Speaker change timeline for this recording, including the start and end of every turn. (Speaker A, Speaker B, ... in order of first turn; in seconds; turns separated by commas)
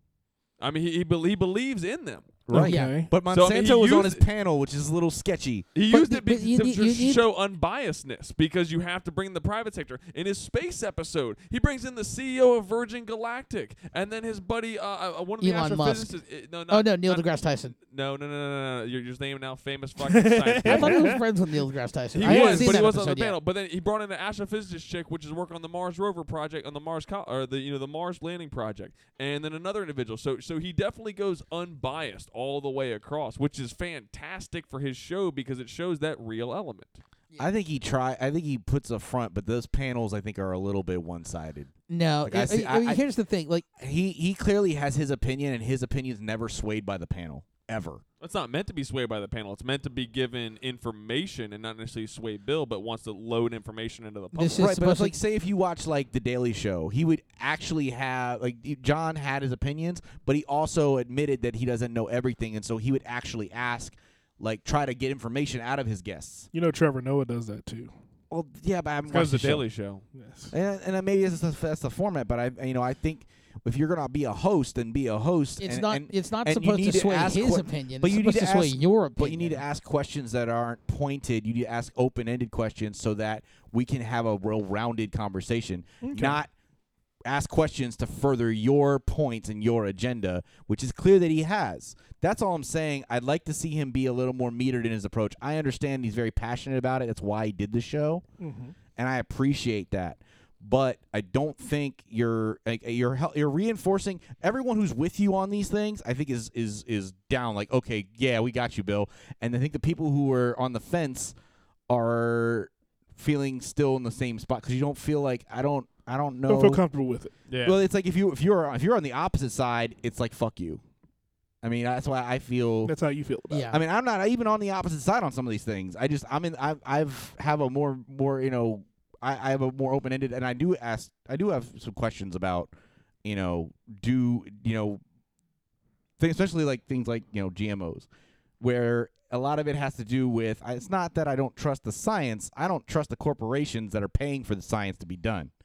Speaker A: 0.6-2.4, Speaker B: 2.5-5.7, Speaker C: 2.5-3.1, Speaker D: 2.6-3.0, Speaker A: 3.3-4.2, Speaker A: 5.8-21.2, Speaker D: 5.9-7.2, Speaker D: 15.4-16.1, Speaker D: 16.7-17.8, Speaker C: 20.1-21.2, Speaker D: 20.6-23.4, Speaker A: 22.1-37.0, Speaker C: 22.2-22.8, Speaker B: 37.4-41.7, Speaker D: 41.9-43.6, Speaker B: 42.2-43.0, Speaker B: 43.8-48.0, Speaker A: 48.2-54.6, Speaker D: 54.4-55.1, Speaker B: 54.5-66.5, Speaker C: 66.5-67.9, Speaker B: 68.3-69.6, Speaker C: 69.1-69.6, Speaker A: 69.3-70.0, Speaker C: 70.1-70.5, Speaker B: 70.5-86.5, Speaker D: 75.6-79.6, Speaker C: 86.0-86.4, Speaker B: 87.3-98.2, Speaker C: 98.4-98.8, Speaker B: 99.0-111.3, Speaker B: 111.9-116.8, Speaker C: 116.5-117.3, Speaker A: 117.5-117.8, Speaker B: 117.6-120.8, Speaker B: 121.6-123.0, Speaker C: 122.8-123.7, Speaker D: 123.5-123.8, Speaker B: 123.7-132.7, Speaker B: 133.2-135.0, Speaker B: 136.2-138.1, Speaker B: 138.6-145.5